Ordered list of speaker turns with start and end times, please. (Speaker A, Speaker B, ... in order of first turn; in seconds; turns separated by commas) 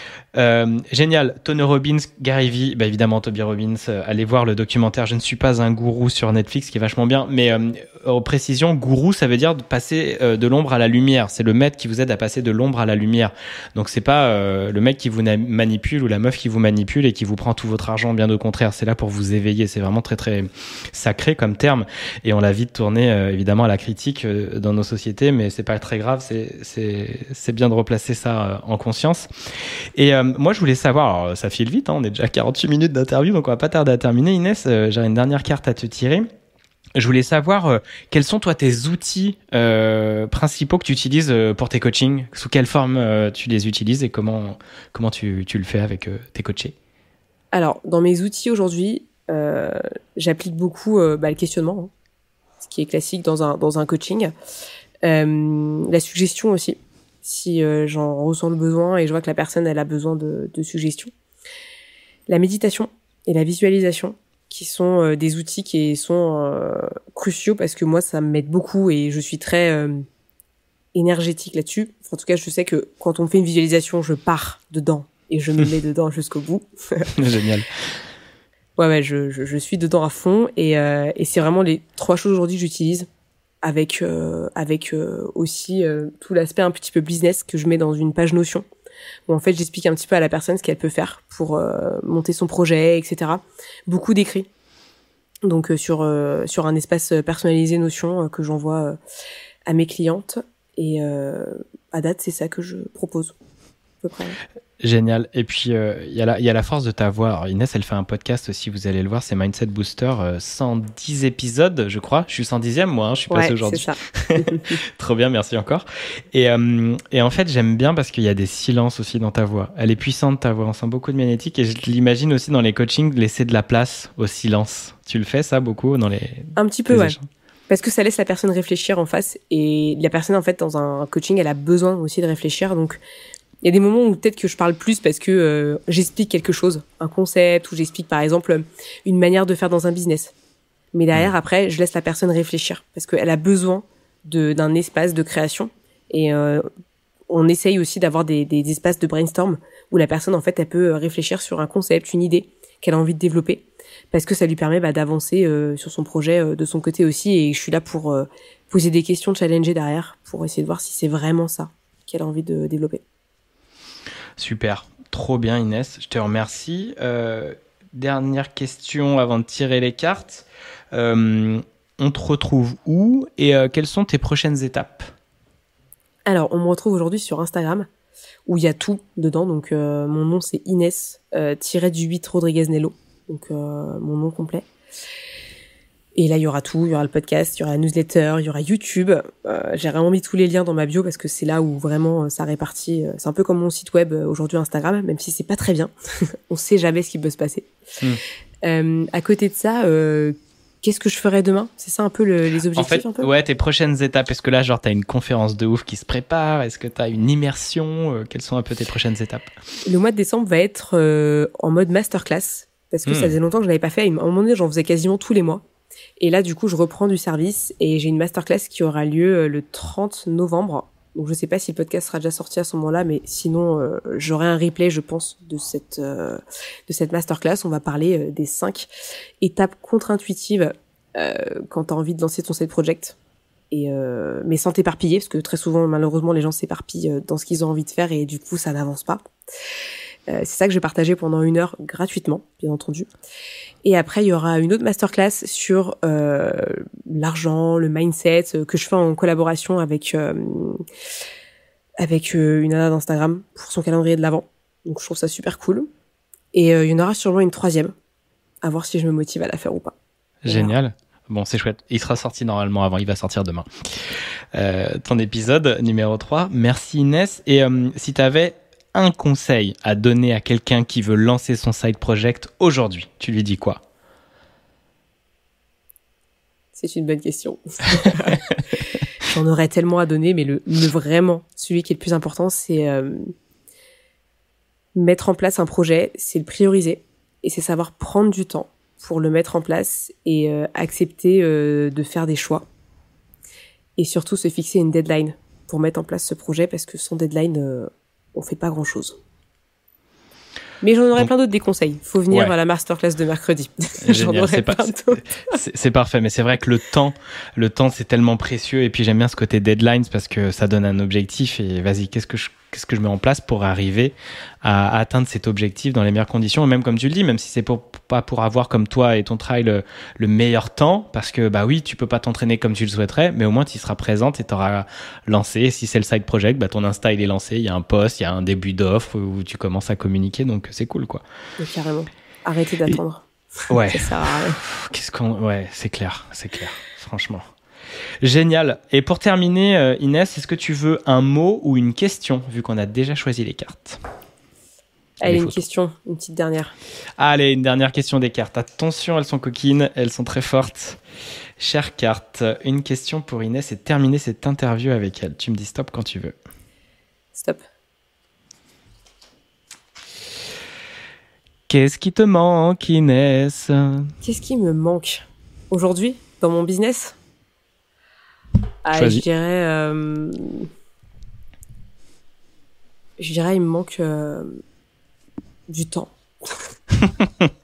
Speaker A: 0.3-29.3, Speaker A: 29.9-36.3, Speaker A: 37.0-46.8, Speaker B: 47.5-51.9, Speaker B: 52.6-54.3, Speaker B: 55.0-61.1, Speaker B: 62.3-70.1, Speaker B: 70.9-77.1, Speaker A: 77.1-77.8, Speaker B: 78.8-83.1, Speaker B: 83.6-88.7, Speaker B: 89.3-94.5, Speaker B: 95.4-99.0, Speaker B: 99.7-103.3, Speaker B: 104.0-104.4, Speaker A: 104.8-127.3, Speaker B: 113.3-114.8, Speaker B: 126.6-127.2, Speaker B: 127.7-133.0, Speaker B: 133.6-140.3, Speaker B: 140.9-146.7, Speaker B: 147.3-163.0, Speaker A: 164.4-175.1, Speaker B: 176.3-177.9, Speaker B: 178.5-184.7, Speaker B: 186.2-195.9, Speaker B: 196.5-197.7, Speaker B: 198.6-203.3, Speaker A: 202.7-209.5, Speaker B: 209.9-215.6, Speaker A: 213.1-213.3, Speaker B: 216.2-228.9, Speaker B: 229.4-233.2, Speaker B: 233.7-239.2, Speaker B: 240.3-243.1, Speaker B: 243.8-250.8, Speaker B: 252.0-255.9, Speaker B: 256.5-257.9, Speaker B: 258.6-259.9, Speaker A: 260.4-263.7, Speaker B: 260.5-260.8, Speaker A: 264.6-273.8, Speaker B: 276.8-283.3, Speaker B: 284.9-292.7, Speaker B: 294.0-299.2, Speaker B: 300.8-305.6, Speaker A: 304.0-331.2, Speaker B: 331.6-334.6, Speaker A: 333.7-337.5, Speaker A: 338.2-344.0, Speaker A: 345.2-345.6, Speaker B: 345.2-346.8, Speaker A: 347.2-351.0, Speaker A: 351.6-356.4, Speaker B: 357.3-357.6, Speaker A: 361.7-364.1, Speaker B: 364.2-367.2, Speaker B: 368.9-370.7, Speaker A: 368.9-369.2, Speaker B: 373.2-374.6, Speaker B: 375.7-376.6